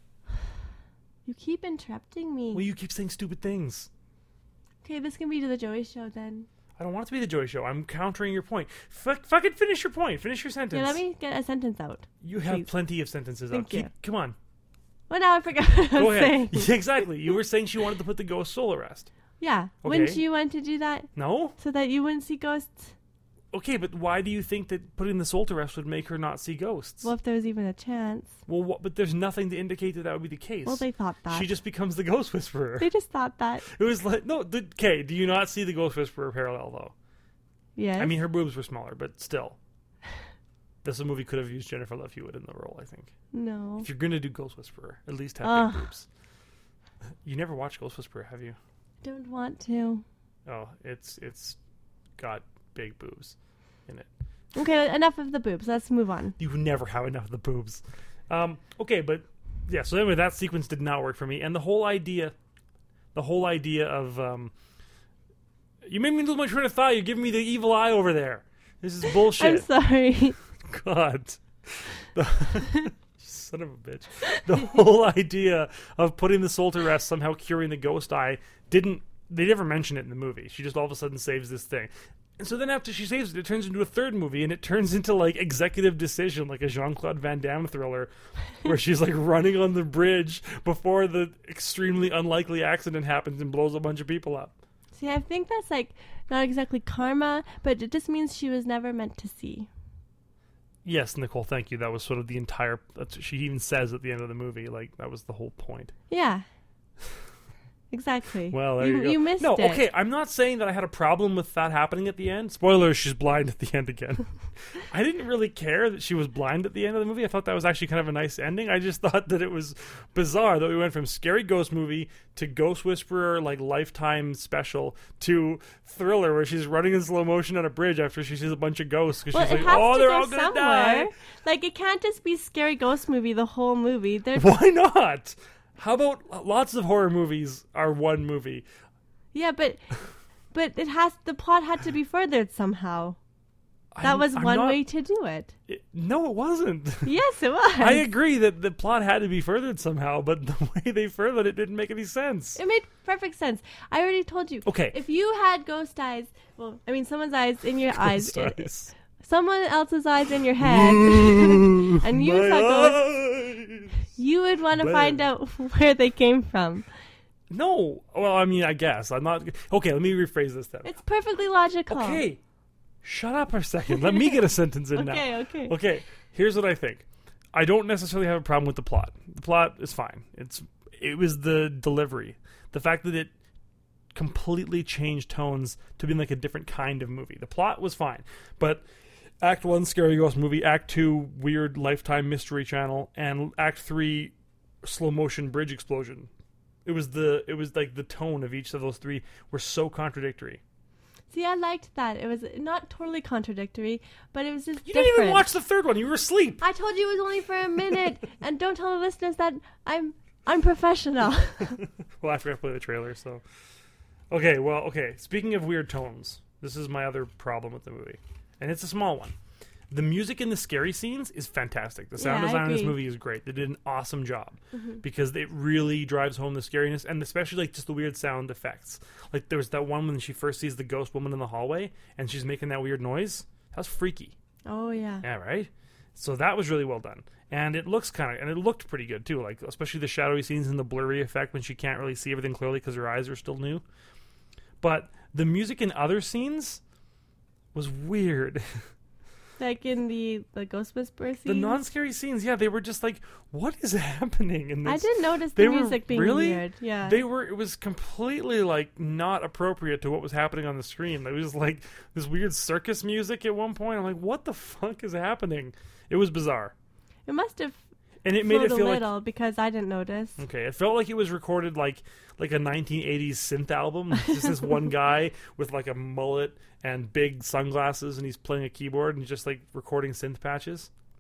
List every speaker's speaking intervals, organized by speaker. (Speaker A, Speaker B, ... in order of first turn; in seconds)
Speaker A: 1.2-2.6, 4.8-6.5, 10.7-12.7, 13.5-13.9, 15.1-16.7, 19.4-22.9, 27.0-28.4, 30.6-31.5, 32.8-33.6, 37.8-38.2, 43.3-43.9, 45.4-45.9, 49.0-50.0, 54.5-56.4, 69.4-70.4, 95.0-99.7, 106.1-106.5, 107.9-109.8, 129.3-134.5, 139.3-139.9, 140.5-143.2, 144.0-145.5, 147.1-148.1, 152.6-158.7, 159.2-163.0, 164.1-166.9, 170.8-172.2, 174.0-174.4, 174.9-175.8, 201.3-205.5, 206.6-211.8, 222.2-223.0, 224.7-225.0, 234.7-235.2, 249.6-251.8, 254.8-257.2, 267.3-267.8, 268.4-270.4
Speaker B: 2.5-3.9, 6.8-11.0, 12.2-14.4, 16.0-19.1, 19.8-20.2, 21.1-21.6, 23.5-27.1, 28.5-32.9, 33.7-36.9, 38.0-39.6, 40.8-43.1, 43.8-46.1, 47.2-48.6, 50.5-51.6, 52.2-53.4, 56.4-62.3, 63.1-64.5, 65.9-69.7, 70.6-94.5, 100.8-105.9, 108.5-131.1, 134.3-138.6, 143.9-144.8, 145.7-147.1, 147.8-152.6, 154.7-155.0, 158.0-158.9, 160.6-164.0, 164.8-165.2, 167.5-170.9, 171.9-172.4, 173.0-183.3, 184.1-188.8, 189.4-196.3, 196.8-200.6, 204.8-206.6, 212.2-213.4, 214.3-219.3, 219.9-234.3, 235.2-243.8, 244.8-246.8, 247.7-248.9, 251.5-266.7, 268.2-269.1, 270.4-280.9